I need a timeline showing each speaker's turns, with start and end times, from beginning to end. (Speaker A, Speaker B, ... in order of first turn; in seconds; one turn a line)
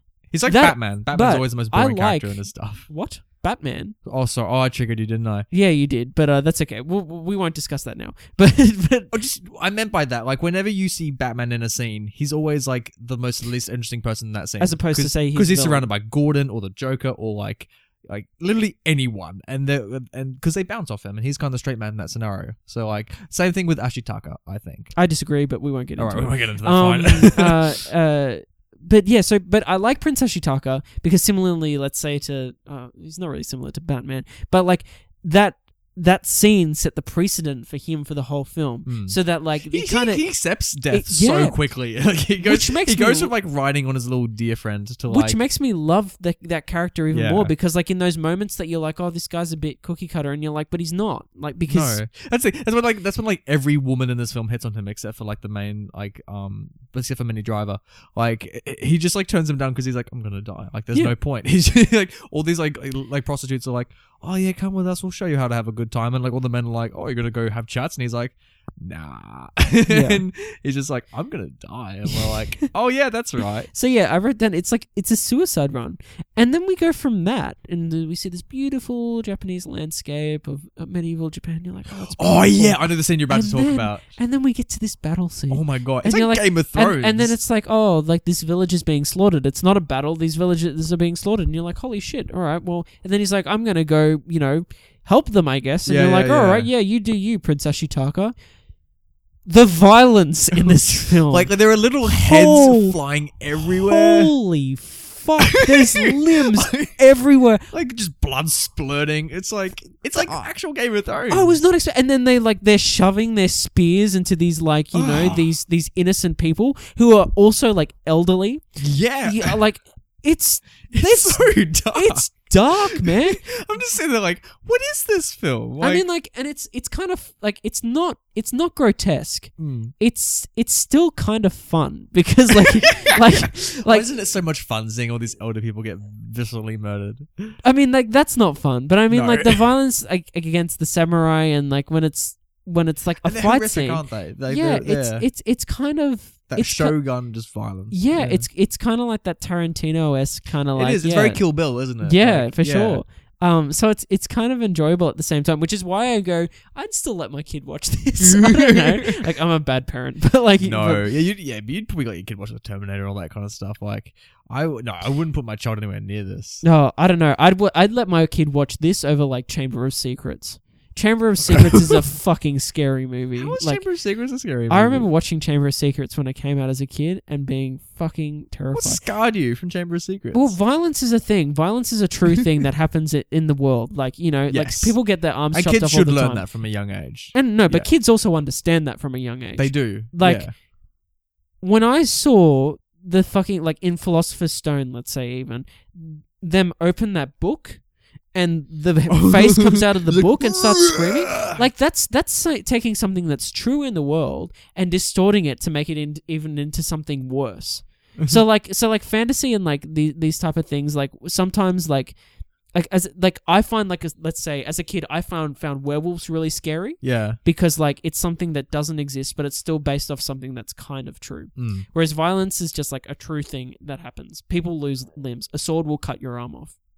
Speaker A: 0.3-2.9
Speaker B: 0.5-4.0
Speaker A: 4.0-5.5
Speaker B: 5.5-9.1
Speaker A: 9.1-24.9
Speaker B: 14.6-15.9
Speaker B: 24.9-40.2
Speaker A: 26.0-27.6
Speaker A: 38.9-39.2
Speaker A: 39.7-45.4
Speaker B: 40.9-41.6
Speaker B: 42.4-43.3
Speaker B: 45.1-52.0
Speaker A: 47.1-47.5
Speaker A: 51.7-73.7
Speaker B: 69.9-70.2
Speaker B: 72.1-72.7
Speaker B: 73.7-98.3
Speaker A: 81.9-84.1
Speaker A: 85.5-87.4
Speaker A: 95.9-96.7
Speaker B: 99.5-101.5
Speaker A: 100.6-104.3
Speaker B: 102.0-103.0
Speaker B: 103.6-107.7
Speaker A: 105.5-107.0
Speaker A: 107.7-111.6
Speaker B: 110.2-110.5
Speaker B: 111.3-118.6
Speaker A: 114.9-115.5
Speaker A: 118.8-119.6
Speaker B: 119.2-123.4
Speaker A: 120.9-126.0
Speaker B: 125.8-134.1
Speaker A: 129.6-129.9
Speaker A: 132.5-137.6
Speaker B: 137.6-147.0
Speaker A: 139.1-139.6
Speaker A: 143.2-145.3
Speaker A: 146.5-148.5
Speaker B: 147.9-151.4
Speaker A: 150.8-153.0
Speaker B: 152.0-161.1
Speaker A: 158.2-159.3
Speaker A: 160.6-166.6
Speaker B: 166.6-173.8
Speaker A: 171.5-172.0
Speaker A: 173.4-175.1
Speaker B: 174.7-179.0
Speaker A: 178.7-180.6
Speaker B: 180.3-186.4
Speaker A: 184.5-184.9
Speaker A: 185.5-187.9
Speaker B: 187.3-190.5
Speaker A: 189.6-190.5
Speaker B: 191.6-197.8
Speaker B: 198.3-212.2
Speaker A: 199.1-201.6
Speaker B: 212.7-226.8
Speaker A: 217.0-217.4
Speaker A: 221.6-221.9